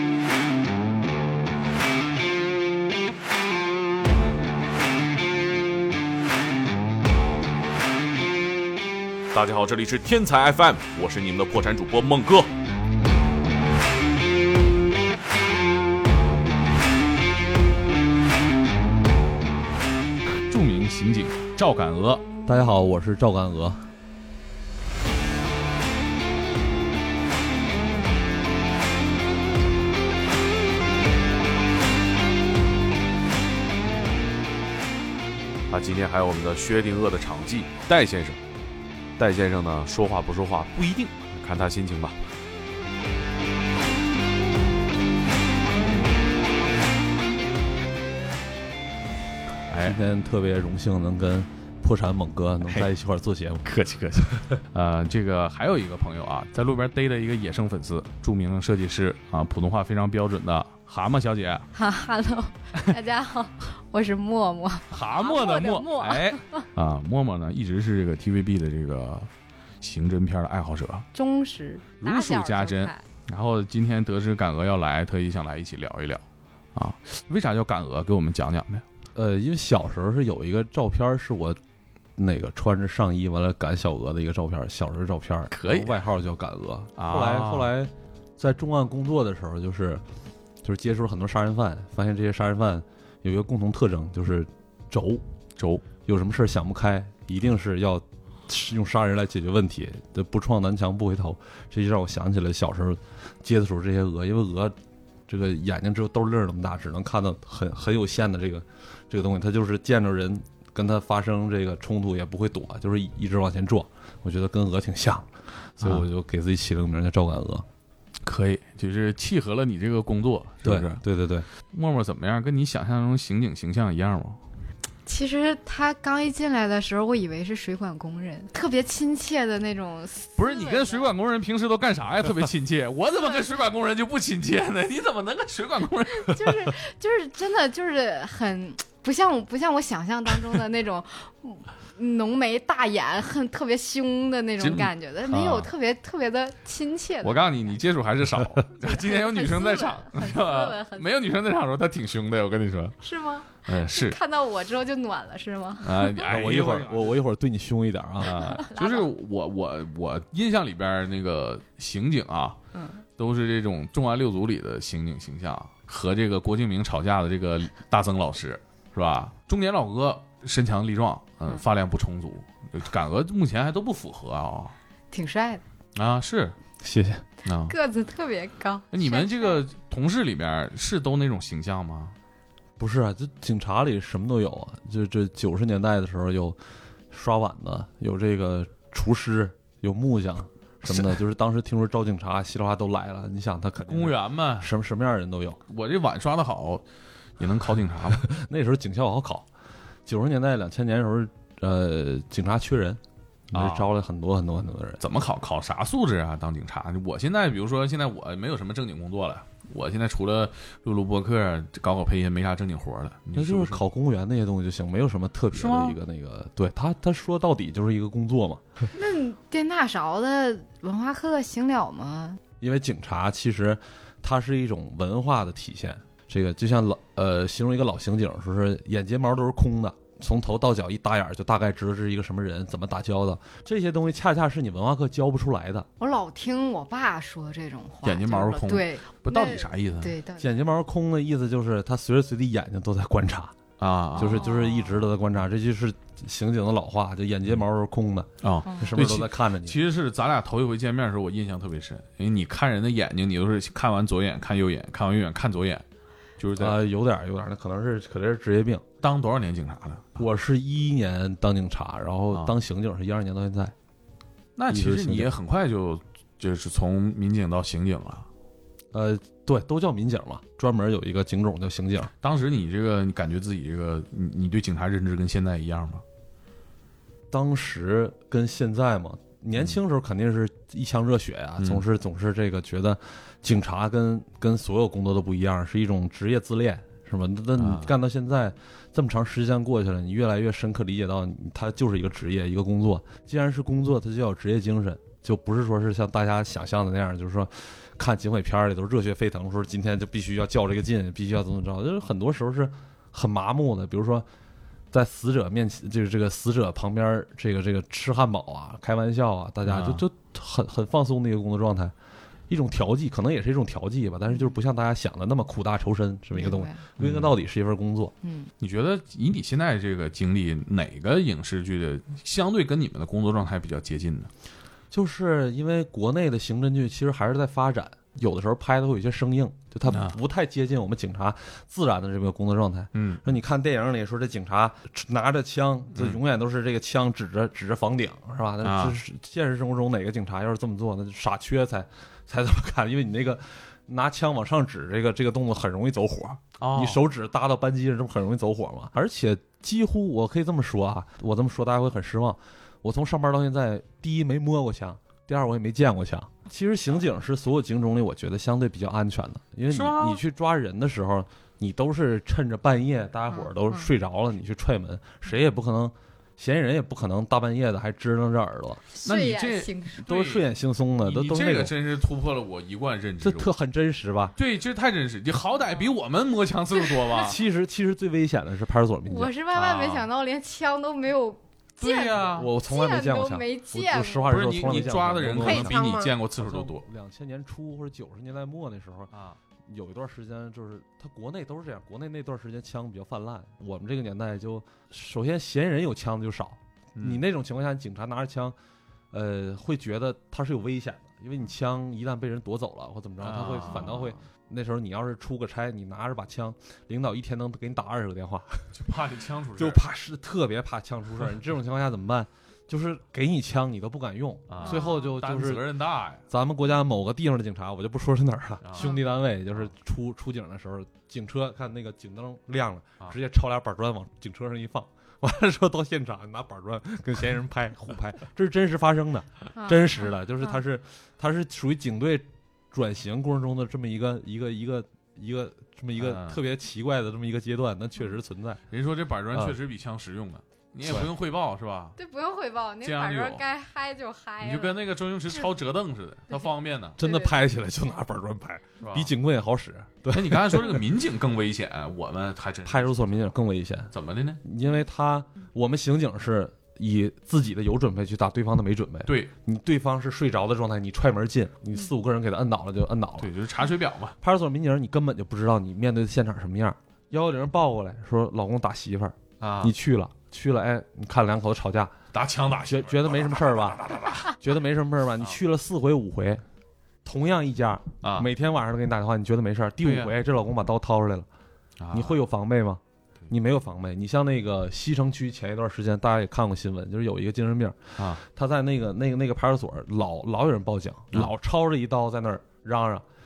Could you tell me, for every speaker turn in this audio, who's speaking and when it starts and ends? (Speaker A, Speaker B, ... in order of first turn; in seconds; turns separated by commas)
Speaker A: 9.3-12.5, Speaker B: 20.5-22.2, Speaker C: 22.5-23.9, Speaker A: 35.7-38.4, Speaker A: 39.2-42.2, Speaker B: 49.7-50.0, Speaker C: 49.8-53.6, Speaker B: 53.6-61.7, Speaker D: 61.8-66.7, Speaker B: 64.9-69.3, Speaker B: 69.8-71.1, Speaker D: 71.1-73.0, Speaker B: 72.0-76.2, Speaker B: 76.8-78.8, Speaker C: 79.2-81.6, Speaker C: 82.2-90.0, Speaker B: 85.5-86.0, Speaker B: 87.0-87.7, Speaker C: 90.6-95.2, Speaker B: 95.6-95.8, Speaker C: 96.1-104.7, Speaker C: 105.3-117.7, Speaker B: 118.2-121.0, Speaker C: 120.6-121.5, Speaker B: 121.6-124.4, Speaker D: 125.1-131.1, Speaker B: 130.4-136.8, Speaker D: 133.1-133.5, Speaker D: 136.1-147.8, Speaker B: 144.6-145.7, Speaker B: 147.2-153.0, Speaker D: 148.8-151.1, Speaker D: 153.0-156.3, Speaker B: 153.7-154.2, Speaker B: 155.8-157.2, Speaker C: 156.3-158.6, Speaker B: 158.2-162.6, Speaker D: 158.2-159.1, Speaker D: 162.7-163.0, Speaker B: 163.2-174.8, Speaker D: 175.1-175.6, Speaker B: 175.9-176.6, Speaker C: 176.8-177.2, Speaker B: 177.4-177.8, Speaker D: 177.7-179.6, Speaker B: 178.9-182.1, Speaker C: 182.8-186.6, Speaker C: 187.1-195.6, Speaker B: 193.9-194.7, Speaker B: 195.7-196.8, Speaker B: 197.4-198.2, Speaker C: 198.2-199.5, Speaker C: 200.1-203.0, Speaker B: 203.5-203.9, Speaker C: 203.5-205.0, Speaker B: 205.0-213.8, Speaker C: 213.3-218.6, Speaker B: 215.5-216.0, Speaker D: 218.9-222.4, Speaker C: 222.6-235.9, Speaker D: 236.0-240.5, Speaker B: 238.0-240.2, Speaker C: 240.4-243.6, Speaker B: 243.8-244.5, Speaker D: 244.2-245.0, Speaker C: 244.2-249.8, Speaker B: 248.4-255.8, Speaker D: 248.7-248.9, Speaker B: 256.4-256.8, Speaker C: 256.6-258.8, Speaker B: 259.0-260.2, Speaker C: 260.2-263.7, Speaker B: 264.6-268.3, Speaker C: 264.7-265.3, Speaker C: 268.9-272.1, Speaker B: 272.2-276.0, Speaker C: 277.3-304.3, Speaker B: 287.6-287.9, Speaker C: 304.9-311.9, Speaker B: 309.6-310.0, Speaker C: 312.5-318.1, Speaker D: 314.3-314.6, Speaker D: 316.4-316.8, Speaker B: 317.0-317.3, Speaker D: 318.2-318.5, Speaker B: 318.6-324.3, Speaker C: 324.9-368.8, Speaker B: 329.9-330.2, Speaker B: 332.9-333.2, Speaker B: 338.6-339.0, Speaker B: 346.6-347.0, Speaker B: 359.7-360.2, Speaker D: 363.3-363.9, Speaker D: 368.9-370.1, Speaker B: 369.0-370.5, Speaker C: 370.1-371.8, Speaker B: 371.0-373.5, Speaker C: 373.2-374.4, Speaker B: 374.4-377.4, Speaker D: 376.9-377.1, Speaker C: 377.1-379.3, Speaker D: 379.1-386.1, Speaker B: 379.5-380.1, Speaker B: 381.8-382.5, Speaker C: 382.3-389.1, Speaker B: 384.3-386.9, Speaker B: 389.1-389.4, Speaker C: 389.7-398.6, Speaker B: 397.0-397.2, Speaker C: 399.1-408.8, Speaker B: 403.2-404.2, Speaker B: 408.7-409.8, Speaker C: 409.6-415.7, Speaker B: 414.5-416.2, Speaker D: 414.6-415.1, Speaker C: 416.3-438.6, Speaker B: 418.6-418.9, Speaker D: 418.8-419.1, Speaker D: 429.6-430.6, Speaker B: 436.0-436.4, Speaker B: 438.7-441.9, Speaker C: 440.8-441.1, Speaker D: 442.0-445.5, Speaker B: 442.8-443.4, Speaker B: 444.4-447.0, Speaker D: 446.3-447.4, Speaker C: 447.0-450.8, Speaker B: 448.8-449.1, Speaker B: 450.1-453.2, Speaker C: 452.7-463.3, Speaker B: 453.9-454.4, Speaker B: 459.1-459.3, Speaker B: 463.2-464.2, Speaker C: 464.2-471.9, Speaker B: 469.4-469.7, Speaker B: 472.1-473.3, Speaker C: 472.6-476.4, Speaker B: 473.9-474.2, Speaker C: 477.1-481.3, Speaker B: 478.0-478.3, Speaker B: 479.8-480.1, Speaker B: 481.8-482.2, Speaker C: 481.9-493.1